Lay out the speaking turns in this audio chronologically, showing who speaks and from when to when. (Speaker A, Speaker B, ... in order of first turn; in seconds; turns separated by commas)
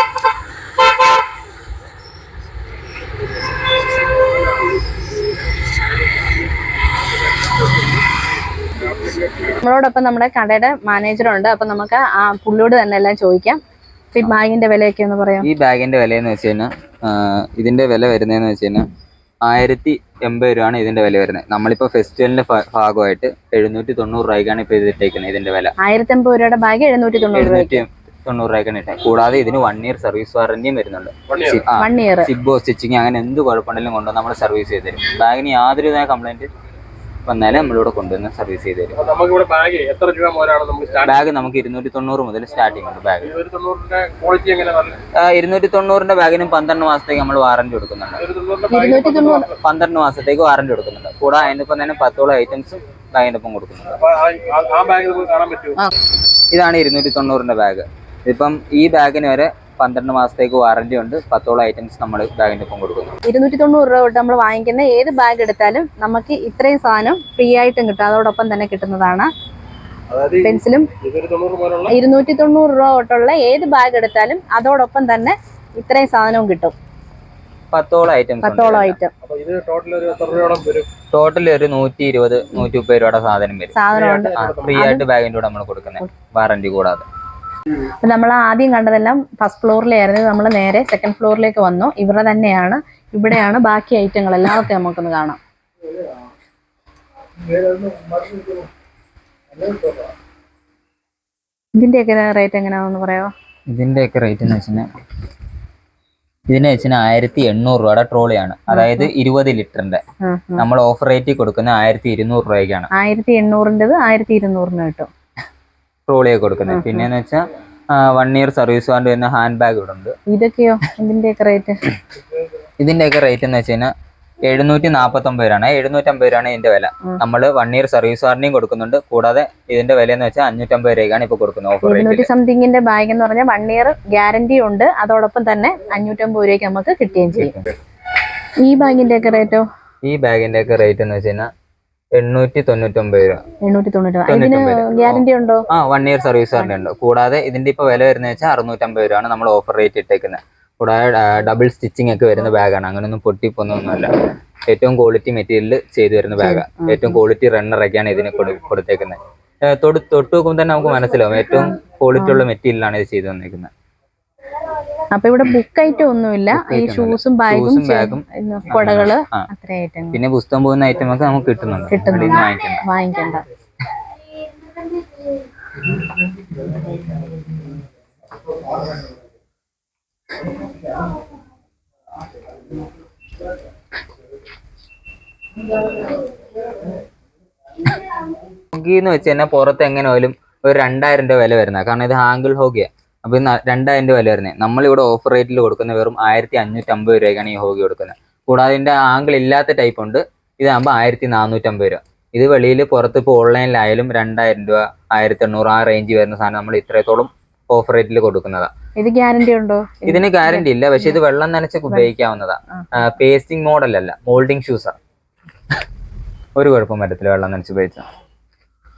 Speaker A: 8.8-9.6, Speaker B: 9.6-13.6, Speaker B: 14.1-15.5, Speaker C: 15.4-18.9, Speaker C: 19.5-25.7, Speaker B: 25.8-27.8, Speaker C: 27.3-36.5, Speaker A: 31.3-31.6, Speaker B: 31.8-32.3, Speaker C: 37.3-39.0, Speaker A: 39.0-41.2, Speaker C: 41.0-43.3, Speaker A: 43.2-45.0, Speaker C: 45.1-48.2, Speaker A: 48.2-49.6, Speaker B: 48.7-49.5, Speaker C: 49.6-54.0, Speaker A: 54.0-55.8, Speaker C: 56.5-63.2, Speaker B: 63.3-69.3, Speaker A: 70.1-72.0, Speaker B: 70.4-70.9, Speaker B: 71.9-76.8, Speaker C: 77.7-79.0, Speaker B: 78.4-79.1, Speaker A: 79.2-80.9, Speaker C: 81.1-83.8, Speaker B: 83.8-85.0, Speaker A: 83.9-84.8, Speaker C: 84.4-87.0, Speaker B: 88.0-95.4, Speaker A: 97.6-98.5, Speaker B: 101.8-103.3, Speaker C: 103.7-104.9, Speaker C: 106.5-110.0, Speaker B: 108.7-109.1, Speaker B: 110.2-110.6, Speaker C: 110.6-112.9, Speaker B: 112.9-115.1, Speaker C: 116.1-120.2, Speaker B: 116.7-117.1, Speaker B: 120.3-121.8, Speaker C: 122.8-123.9, Speaker C: 124.5-132.3, Speaker B: 131.8-137.5, Speaker C: 137.4-137.7, Speaker B: 138.6-139.6, Speaker C: 140.0-141.5, Speaker C: 142.2-143.4, Speaker B: 143.6-145.6, Speaker C: 144.3-154.1, Speaker C: 154.7-163.7, Speaker B: 156.4-157.2, Speaker B: 161.5-162.4, Speaker B: 165.1-170.2, Speaker C: 166.5-169.5, Speaker C: 170.1-172.8, Speaker B: 171.9-173.4, Speaker C: 188.7-208.7, Speaker B: 209.0-211.1, Speaker C: 210.1-214.9, Speaker B: 212.7-213.0, Speaker C: 216.6-218.1